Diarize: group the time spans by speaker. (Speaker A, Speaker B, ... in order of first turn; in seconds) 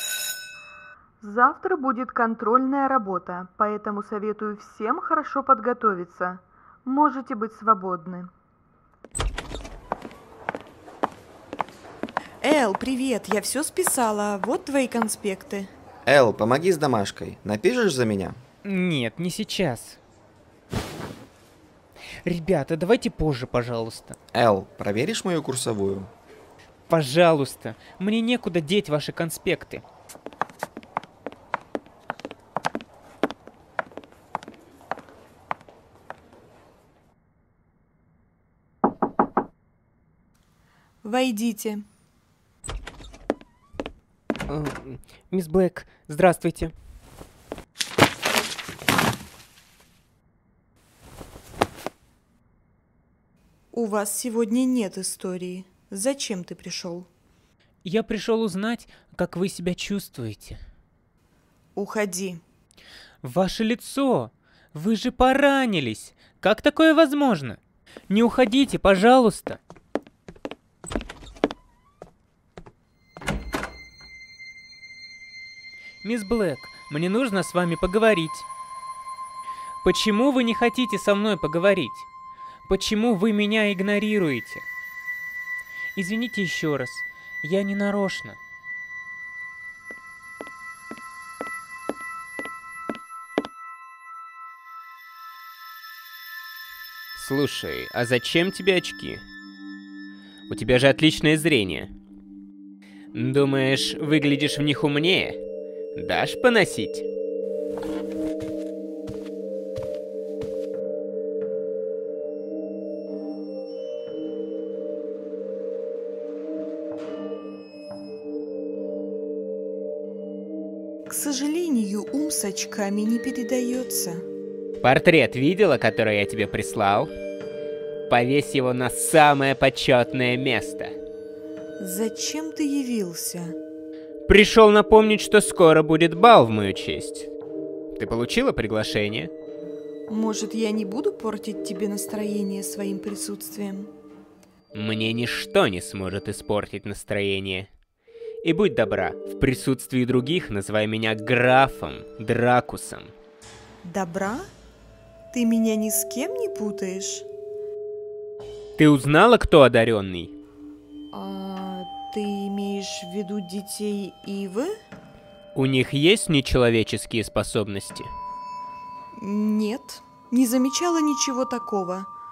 Speaker A: 1.2-8.3, 12.4-15.7, 41.0-41.8, 53.7-57.1, 61.8-62.4, 121.1-124.2, 131.8-133.6, 140.1-143.9, 153.8-154.4, 155.3-157.3, 161.1-164.7, 169.2-172.1
Speaker B: 16.1-18.4, 24.3-26.1
Speaker C: 18.7-20.0, 22.2-24.2, 26.9-29.8, 44.5-46.7, 57.9-60.6, 63.2-67.6, 68.1-69.6, 76.0-78.5, 79.8-82.1, 82.7-84.7, 86.0-88.4, 97.2-99.2, 100.5-101.9, 103.1-105.4, 106.0-107.1, 124.8-127.1, 128.1-130.9, 134.3-137.3, 137.9-139.3, 144.7-147.7, 148.4-153.1, 158.8-160.3, 165.6-168.1